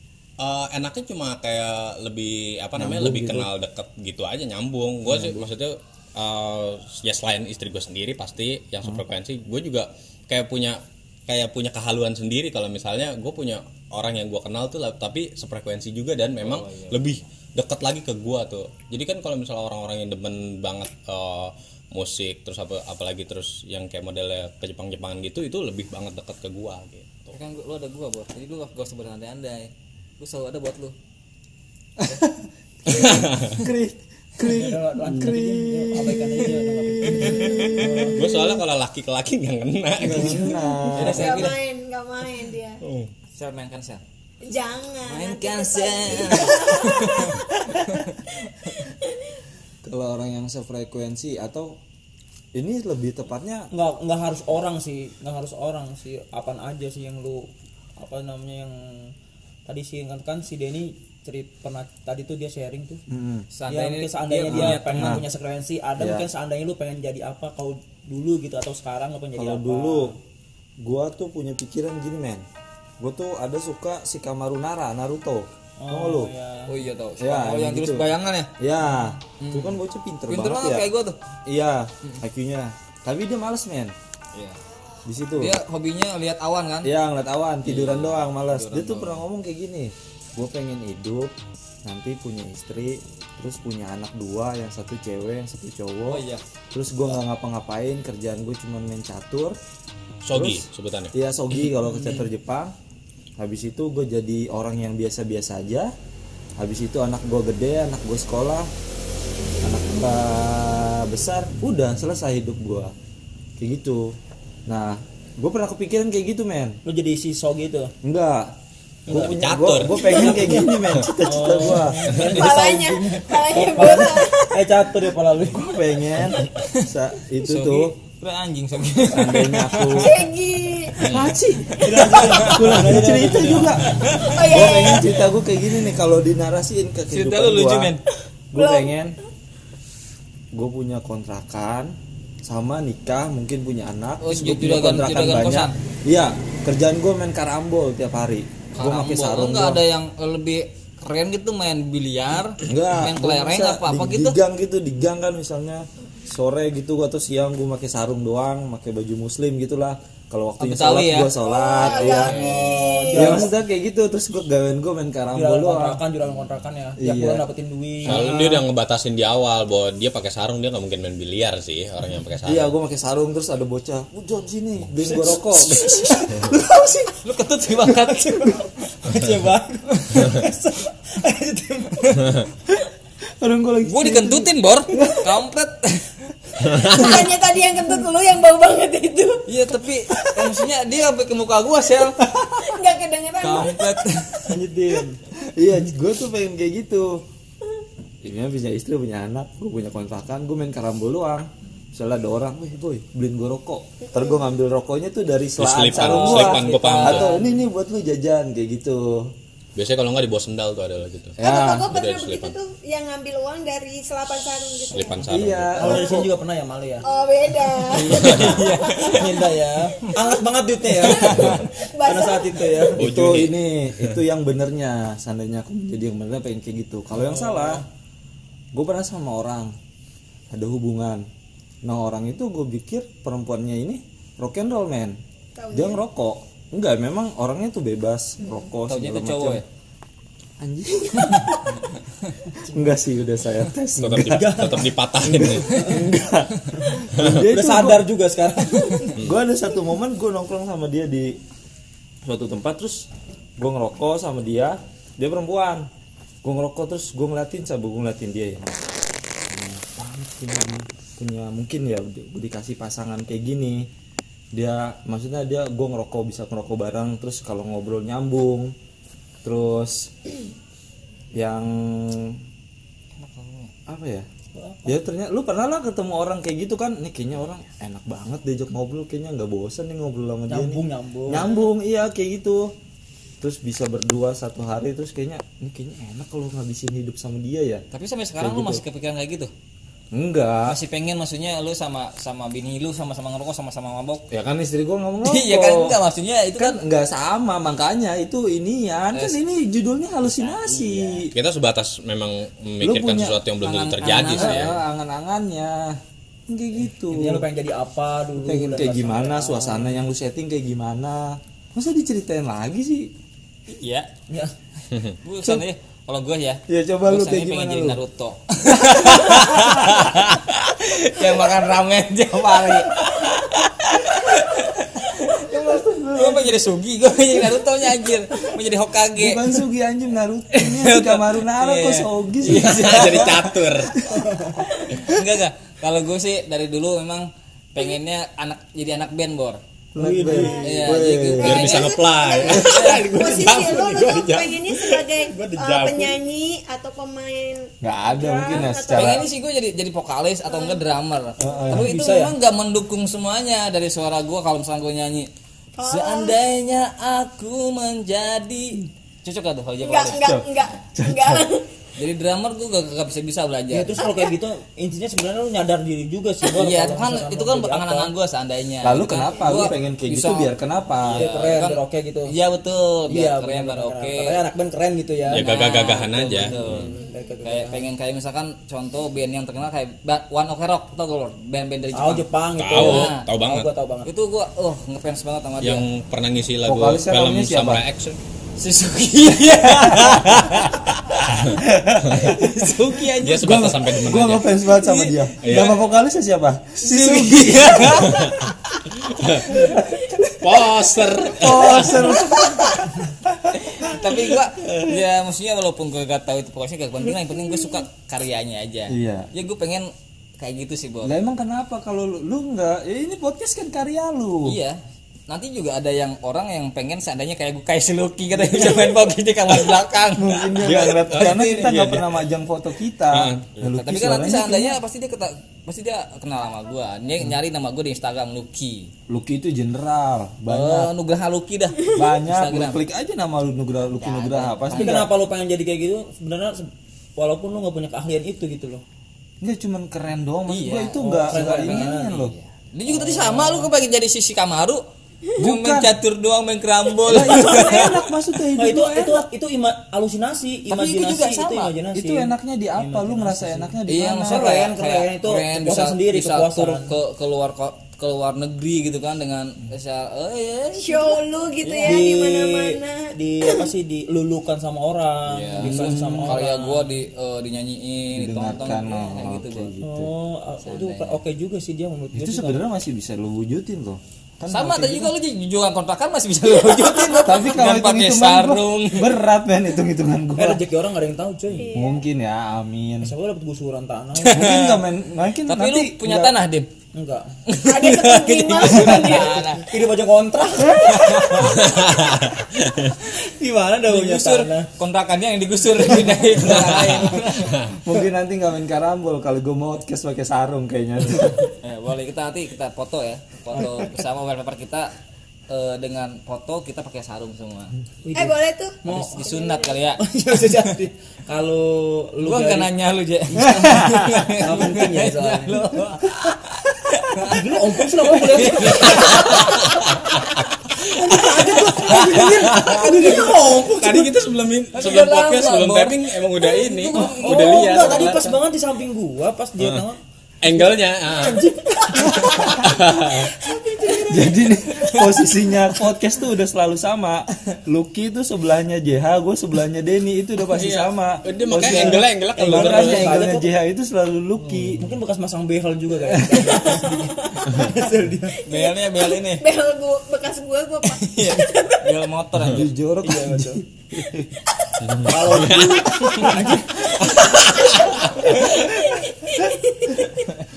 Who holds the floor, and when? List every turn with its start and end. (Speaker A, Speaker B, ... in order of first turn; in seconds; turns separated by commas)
Speaker A: 0.4-27.3, Speaker B: 2.8-3.5, Speaker B: 5.0-5.5, Speaker C: 16.4-17.2, Speaker C: 27.3-30.9, Speaker B: 32.0-38.6, Speaker A: 32.9-33.6, Speaker D: 34.4-38.1, Speaker A: 38.1-40.7, Speaker B: 40.0-41.5, Speaker C: 40.9-41.6, Speaker E: 41.0-42.8, Speaker A: 42.8-43.1, Speaker C: 43.3-44.0, Speaker E: 44.4-49.1, Speaker C: 45.0-48.2, Speaker B: 49.8-51.8, Speaker B: 52.5-53.7, Speaker D: 53.7-59.1, Speaker D: 59.6-63.0, Speaker B: 63.1-63.5, Speaker C: 63.5-65.2, Speaker D: 63.7-70.2, Speaker B: 64.5-65.2, Speaker B: 66.0-66.3, Speaker B: 69.4-70.1, Speaker B: 70.8-72.5, Speaker B: 73.0-76.3, Speaker D: 75.8-76.7, Speaker C: 76.7-78.5, Speaker B: 77.2-78.1, Speaker B: 78.6-80.8, Speaker C: 79.4-81.2, Speaker B: 81.5-83.9, Speaker B: 85.0-85.5, Speaker C: 85.3-86.9, Speaker B: 86.8-91.3, Speaker C: 87.6-89.2, Speaker B: 91.8-99.5, Speaker C: 96.1-96.4, Speaker A: 100.2-101.1, Speaker B: 100.3-102.7, Speaker C: 101.9-102.3, Speaker B: 103.4-105.9, Speaker B: 106.6-108.7, Speaker B: 109.6-112.9, Speaker B: 113.6-116.8, Speaker D: 116.8-117.9, Speaker B: 118.0-118.5, Speaker A: 119.0-120.5, Speaker B: 119.1-122.1, Speaker E: 120.1-120.4, Speaker D: 120.2-120.7, Speaker D: 121.2-125.7, Speaker E: 122.2-124.6, Speaker B: 125.4-127.9, Speaker C: 127.4-130.1, Speaker B: 129.1-130.1, Speaker E: 129.9-131.0, Speaker C: 131.0-134.4, Speaker A: 131.0-131.3, Speaker B: 131.0-133.8, Speaker D: 131.8-133.8, Speaker E: 134.1-135.3, Speaker B: 134.4-137.9, Speaker C: 137.1-138.0, Speaker B: 138.5-139.1, Speaker E: 138.5-138.9, Speaker B: 140.5-149.8, Speaker C: 144.2-145.7, Speaker C: 148.7-154.3, Speaker B: 152.6-162.6, Speaker C: 160.6-162.8, Speaker E: 161.4-163.4, Speaker D: 162.2-163.5, Speaker B: 163.1-166.0, Speaker D: 165.3-168.3, Speaker B: 167.0-167.4, Speaker B: 168.1-168.7, Speaker A: 168.1-172.7, Speaker B: 172.4-178.6, Speaker C: 177.2-178.4, Speaker D: 177.8-182.4, Speaker B: 183.4-185.3, Speaker C: 183.8-186.3, Speaker A: 186.6-187.2, Speaker E: 186.8-189.4, Speaker C: 189.5-192.2, Speaker B: 190.1-190.5, Speaker B: 192.2-192.8, Speaker E: 192.6-194.4, Speaker C: 193.4-194.4, Speaker D: 194.5-195.1, Speaker B: 194.5-197.2, Speaker B: 198.2-209.3, Speaker A: 205.6-207.3, Speaker D: 206.0-207.6, Speaker A: 209.8-212.6, Speaker B: 211.4-211.9, Speaker E: 211.4-215.2, Speaker A: 214.8-215.9, Speaker B: 215.3-216.3, Speaker D: 215.8-217.1, Speaker E: 215.8-216.2, Speaker E: 217.0-219.5, Speaker C: 217.9-219.3, Speaker A: 218.1-218.6, Speaker D: 219.0-222.9, Speaker E: 221.0-222.9, Speaker C: 221.1-221.4, Speaker A: 221.2-221.6, Speaker A: 223.0-224.2, Speaker B: 223.0-227.8, Speaker D: 227.1-227.8, Speaker B: 228.7-229.7, Speaker B: 230.5-231.2, Speaker B: 231.8-235.2, Speaker E: 235.6-236.0, Speaker B: 235.7-239.6, Speaker C: 238.9-239.6, Speaker B: 240.6-241.7, Speaker B: 242.6-244.6, Speaker A: 244.0-245.9, Speaker D: 244.2-244.9, Speaker B: 245.2-248.1, Speaker A: 247.2-247.4, Speaker D: 247.4-249.2, Speaker B: 249.2-251.4, Speaker B: 252.2-255.9, Speaker B: 256.4-258.8, Speaker B: 259.5-263.9, Speaker B: 264.5-268.7, Speaker B: 269.4-270.3, Speaker B: 271.3-272.4, Speaker C: 273.2-273.7, Speaker B: 273.9-274.3, Speaker D: 274.5-274.9, Speaker B: 274.8-282.7, Speaker D: 280.5-281.5, Speaker B: 283.4-287.8, Speaker C: 287.9-289.5, Speaker B: 288.4-288.8, Speaker B: 290.1-290.8, Speaker C: 290.6-294.3, Speaker B: 294.3-296.0, Speaker C: 295.2-296.8, Speaker B: 296.6-301.3, Speaker C: 299.1-299.4, Speaker C: 300.2-301.3, Speaker A: 301.3-304.8, Speaker B: 302.8-303.4, Speaker C: 303.6-304.8, Speaker B: 304.3-307.4, Speaker D: 307.1-310.0, Speaker B: 308.4-313.1, Speaker C: 313.7-314.1, Speaker D: 314.3-314.5, Speaker C: 315.2-325.4, Speaker B: 316.7-318.0, Speaker B: 318.7-320.1, Speaker B: 325.3-326.6, Speaker C: 326.1-329.6, Speaker B: 329.1-333.5, Speaker C: 330.5-333.7, Speaker A: 332.4-333.9, Speaker B: 334.1-334.4, Speaker D: 334.1-334.6, Speaker C: 335.0-339.6, Speaker B: 339.9-341.7, Speaker D: 340.0-340.6, Speaker E: 340.3-349.3, Speaker C: 340.6-341.9, Speaker A: 341.3-345.0, Speaker C: 342.5-343.7, Speaker D: 345.2-346.2, Speaker B: 347.8-349.2, Speaker C: 348.5-355.3, Speaker E: 350.5-350.8, Speaker B: 351.4-351.9, Speaker D: 351.7-352.3, Speaker E: 355.8-356.4, Speaker C: 355.8-360.4, Speaker E: 359.8-361.6, Speaker B: 360.2-361.5, Speaker C: 362.0-364.1, Speaker D: 363.7-368.1, Speaker E: 364.0-364.3, Speaker C: 366.5-374.4, Speaker B: 368.8-371.3, Speaker D: 371.1-372.3, Speaker D: 373.1-375.4, Speaker A: 375.3-376.9, Speaker C: 375.3-383.3, Speaker D: 376.3-377.9, Speaker E: 376.9-377.3, Speaker D: 381.9-384.1, Speaker A: 382.6-383.7, Speaker C: 384.0-385.8, Speaker A: 385.6-388.2, Speaker B: 386.6-387.8, Speaker C: 388.6-390.9, Speaker B: 389.6-390.6, Speaker B: 391.5-398.3, Speaker C: 392.1-395.9, Speaker A: 393.2-394.5, Speaker A: 395.4-395.8, Speaker C: 396.8-398.4, Speaker A: 399.0-399.6, Speaker B: 399.5-405.0, Speaker A: 400.4-402.2, Speaker C: 401.5-402.1, Speaker C: 403.6-411.1, Speaker B: 408.9-409.3, Speaker B: 411.0-414.6, Speaker C: 414.4-422.0, Speaker B: 418.4-418.9, Speaker B: 420.2-424.8, Speaker A: 420.9-422.0, Speaker A: 423.1-423.6, Speaker C: 423.7-428.9, Speaker B: 429.1-430.9, Speaker C: 430.5-432.8, Speaker B: 431.9-435.1, Speaker C: 433.9-435.1, Speaker D: 434.7-438.8, Speaker B: 439.4-442.3, Speaker C: 440.5-444.8, Speaker D: 441.0-442.2, Speaker D: 442.9-443.7, Speaker C: 445.3-448.1, Speaker B: 445.4-445.9, Speaker B: 447.0-449.2, Speaker D: 448.6-453.7, Speaker C: 450.7-451.7, Speaker B: 451.9-454.6, Speaker C: 453.9-461.2, Speaker D: 454.2-456.9, Speaker E: 460.7-463.7, Speaker D: 461.6-466.9, Speaker C: 465.3-469.7, Speaker B: 465.6-466.4, Speaker B: 468.1-470.1, Speaker D: 469.8-472.6, Speaker C: 470.6-471.2, Speaker B: 472.1-475.1, Speaker C: 474.5-479.2, Speaker B: 476.8-480.6, Speaker D: 480.4-481.7, Speaker E: 481.5-482.0, Speaker B: 481.7-483.1, Speaker D: 483.0-484.5, Speaker C: 484.2-484.9, Speaker B: 484.3-486.3, Speaker C: 485.4-486.7, Speaker D: 486.9-487.3, Speaker C: 487.5-489.7, Speaker E: 487.6-489.6, Speaker D: 488.8-491.9, Speaker C: 490.8-491.6, Speaker A: 491.6-492.9, Speaker D: 493.0-494.7, Speaker C: 493.9-497.5, Speaker A: 496.4-497.7, Speaker D: 497.0-497.5, Speaker B: 497.8-501.4, Speaker C: 501.6-504.9, Speaker C: 505.5-507.7, Speaker D: 508.0-509.2, Speaker E: 508.1-509.8, Speaker C: 508.9-510.7, Speaker D: 510.0-512.7, Speaker C: 512.2-517.5, Speaker D: 513.3-516.0, Speaker B: 513.6-514.1, Speaker D: 517.2-520.2, Speaker C: 518.0-519.7, Speaker A: 518.9-528.4, Speaker D: 520.8-524.2, Speaker C: 524.7-528.2, Speaker D: 526.9-530.0, Speaker A: 529.6-529.8, Speaker A: 530.4-533.3, Speaker D: 531.4-534.3, Speaker B: 532.0-533.2, Speaker E: 533.4-534.3, Speaker B: 534.0-544.9, Speaker C: 534.9-535.2, Speaker A: 540.5-543.2, Speaker D: 541.6-543.5, Speaker D: 544.8-548.4, Speaker B: 546.0-546.5, Speaker E: 546.5-547.7, Speaker E: 548.3-551.8, Speaker C: 548.5-549.4, Speaker C: 550.8-552.7, Speaker B: 552.5-554.3, Speaker D: 553.0-553.6, Speaker A: 554.8-556.3, Speaker D: 555.0-556.9, Speaker C: 556.1-556.4, Speaker A: 557.2-558.2, Speaker E: 558.4-560.2